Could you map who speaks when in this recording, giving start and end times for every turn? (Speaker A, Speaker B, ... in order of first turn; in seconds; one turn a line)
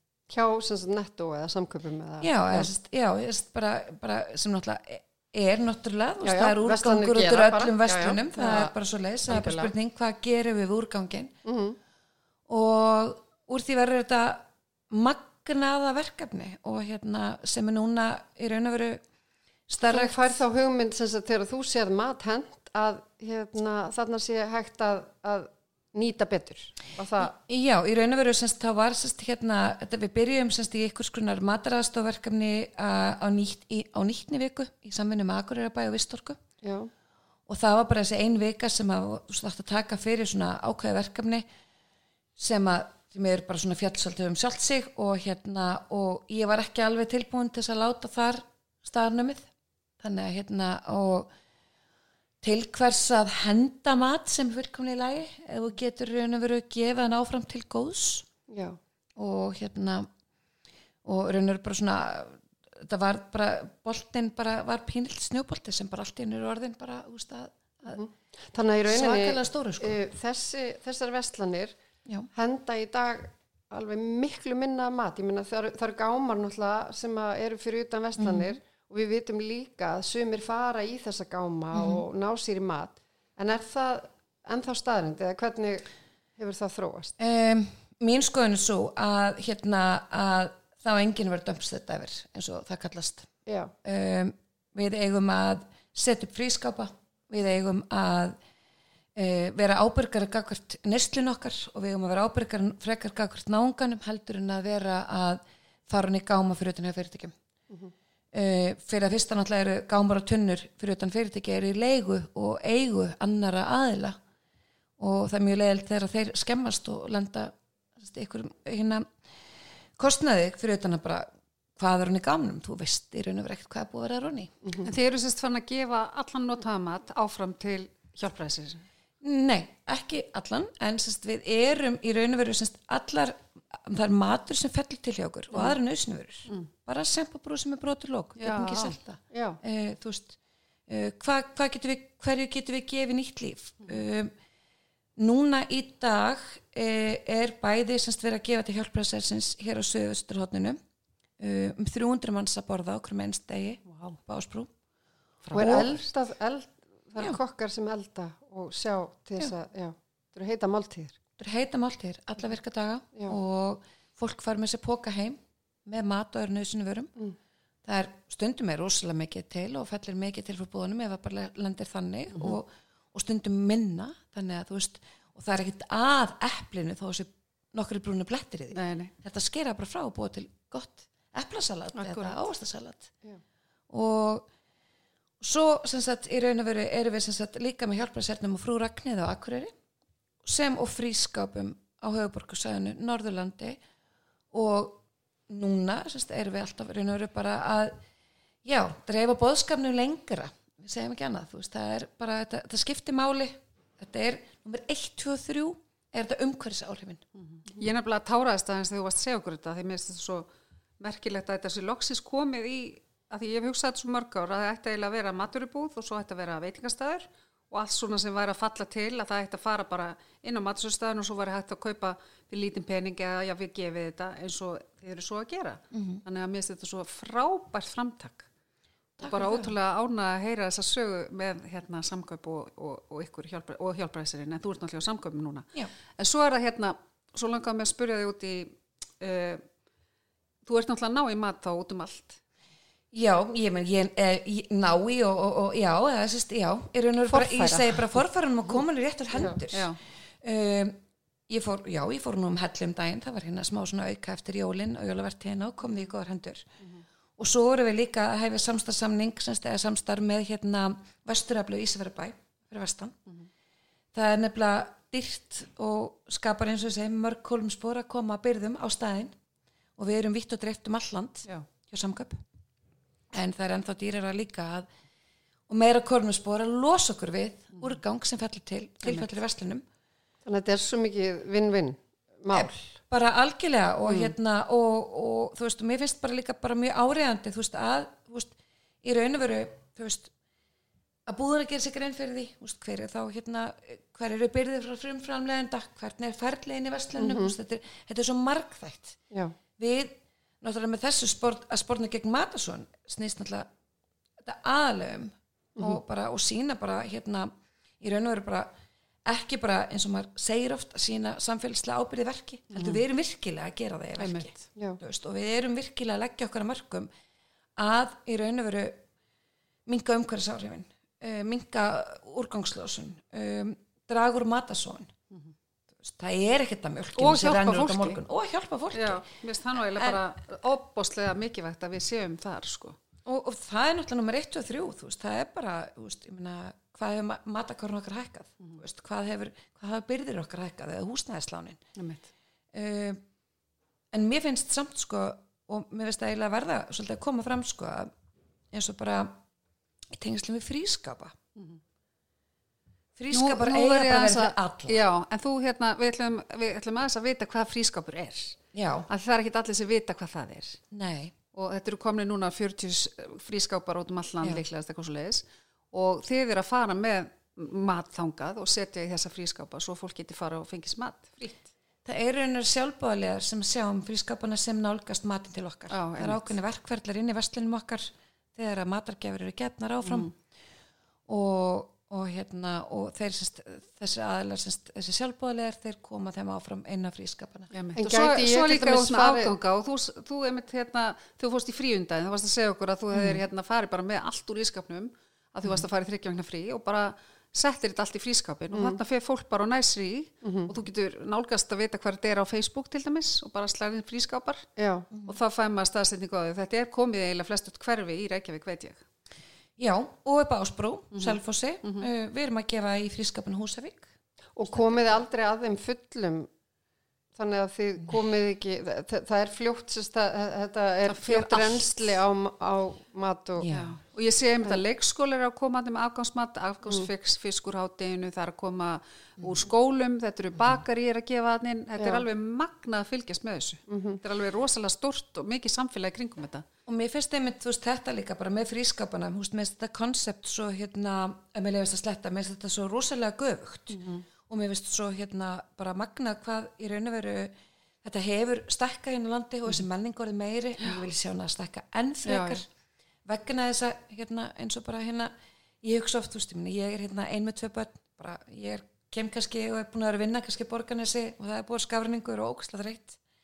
Speaker A: 0.3-2.7
Speaker B: 2.2-11.3
Speaker A: 6.2-8.7
Speaker A: 9.3-9.7
Speaker A: 11.4-11.8
Speaker B: 12.5-19.0
Speaker B: 19.7-20.4
Speaker A: 19.9-27.3
Speaker B: 27.2-36.4
Speaker A: 36.6-36.9
Speaker B: 37.5-41.5
Speaker B: 42.4-49.5
Speaker B: 50.0-51.3
Speaker B: 52.4-58.3
Speaker A: 58.5-58.8
Speaker B: 59.2-60.1
Speaker B: 61.0-68.0
Speaker A: 67.9-71.8
Speaker B: 68.9-70.0
Speaker A: 72.3-85.9
Speaker B: 78.2-78.6
Speaker B: 81.7-82.0
Speaker A: 86.4-87.1
Speaker B: 87.2-93.3
Speaker A: 93.5-93.7
Speaker B: 93.8-98.4
Speaker B: 99.2-107.3
Speaker B: 108.3-114.2
Speaker B: 115.0-119.1
Speaker B: 120.0-124.5
Speaker C: 124.8-128.8
Speaker B: 129.2-140.4
Speaker C: 138.4-139.0
Speaker A: 139.3-139.6
Speaker B: 140.9-144.3
Speaker B: 145.2-150.8
Speaker B: 151.4-154.7
Speaker C: 153.9-154.2
Speaker C: 155.4-156.0
Speaker B: 155.5-155.9
Speaker A: 155.5-161.2
Speaker B: 161.4-167.1
Speaker B: 167.8-183.1
Speaker C: 178.7-179.1
Speaker C: 181.9-182.4
Speaker B: 183.9-184.5
Speaker B: 185.4-189.7
Speaker B: 190.4-193.8
Speaker B: 194.5-198.0
Speaker B: 198.6-207.2
Speaker C: 207.4-210.5
Speaker C: 211.0-228.5
Speaker B: 225.9-226.2
Speaker B: 229.2-229.7
Speaker C: 229.2-239.7
Speaker C: 240.7-242.4
Speaker B: 243.1-256.7
Speaker A: 247.3-248.0
Speaker C: 249.7-250.0
Speaker B: 257.4-263.2
Speaker B: 264.1-269.4
Speaker B: 270.0-272.4
Speaker B: 273.3-274.9
Speaker B: 275.7-279.8
Speaker C: 279.0-279.3
Speaker A: 280.5-282.8
Speaker B: 282.5-290.3
Speaker A: 284.0-284.3
Speaker B: 291.3-299.2
Speaker A: 297.2-297.6
Speaker B: 299.8-303.7
Speaker B: 304.4-308.7
Speaker B: 309.3-317.1
Speaker C: 312.7-313.0
Speaker C: 314.2-314.6
Speaker B: 317.8-319.0
Speaker B: 319.9-325.1
Speaker B: 326.0-330.2
Speaker C: 327.2-328.2
Speaker C: 328.9-333.0
Speaker B: 333.3-341.8
Speaker C: 342.0-342.3
Speaker B: 342.7-343.2
Speaker B: 344.1-348.1
Speaker B: 348.7-349.4
Speaker B: 350.1-351.4
Speaker B: 353.2-355.0
Speaker C: 353.3-360.8
Speaker B: 358.7-359.1
Speaker B: 360.9-361.4
Speaker C: 361.5-371.7
Speaker B: 372.1-380.3
Speaker C: 375.9-376.5
Speaker C: 380.0-380.3
Speaker B: 381.3-387.7
Speaker C: 387.7-404.7
Speaker A: 388.0-389.6
Speaker A: 398.7-399.0
Speaker A: 400.4-400.7
Speaker A: 404.8-405.1
Speaker C: 405.2-409.0
Speaker B: 409.8-414.1
Speaker C: 411.1-412.1
Speaker A: 414.6-416.5
Speaker A: 417.4-423.9
Speaker C: 421.1-422.1
Speaker B: 423.6-423.9
Speaker C: 423.7-436.6
Speaker A: 432.0-432.2
Speaker A: 433.9-434.2
Speaker B: 436.9-452.7
Speaker C: 444.0-444.2
Speaker C: 452.2-452.6
Speaker B: 453.3-463.2